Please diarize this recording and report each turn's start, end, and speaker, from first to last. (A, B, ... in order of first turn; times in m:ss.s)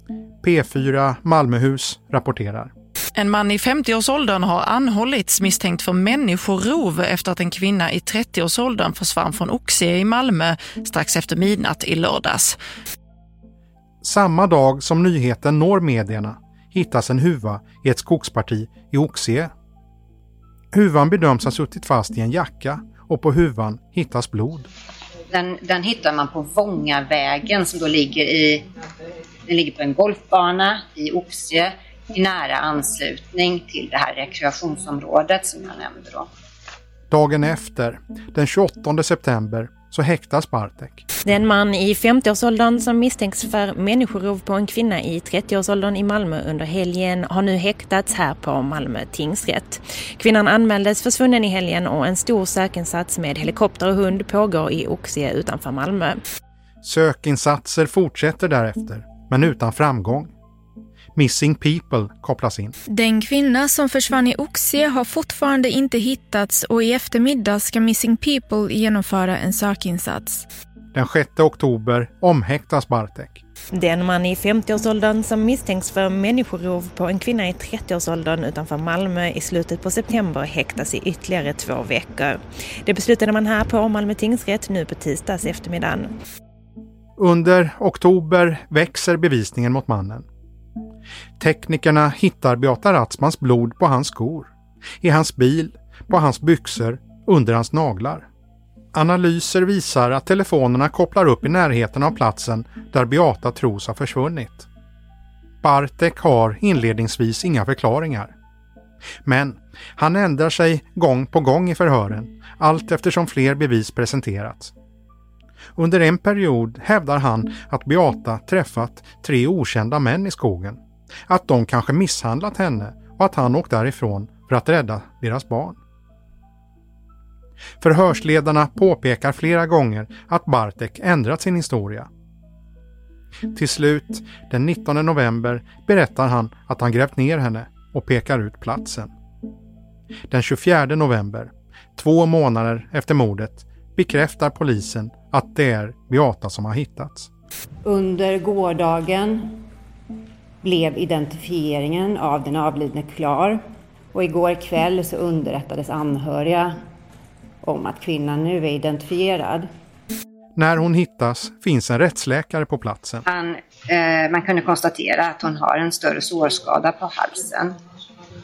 0:00.4-0:02.7 A
0:03.2-0:12.6 B
0:14.0-0:19.5 A
0:20.7-0:24.7 A
0:25.3-0:28.6 C
0:29.5-0:36.3 C
0:37.1-0:41.0 A
0:41.2-0:56.2 D
0:56.8-1:00.3 A
1:01.1-1:02.8 A
1:02.9-1:10.4 E
1:10.9-1:13.4 A
1:13.7-1:26.2 D
1:27.2-1:30.2 A
1:31.4-1:34.5 A
1:35.0-1:38.2 A
1:38.9-1:44.7 A
1:45.6-1:48.3 A
1:49.2-1:54.7 A
1:55.8-2:05.8 A
2:07.8-2:12.1 A
2:13.5-2:19.1 A
2:20.3-2:27.3 A
2:27.8-2:29.6 F
2:30.6-2:33.6 F
2:34.1-2:36.8 F
2:37.6-2:39.7 F
2:40.6-2:43.2 A
2:43.2-2:47.8 C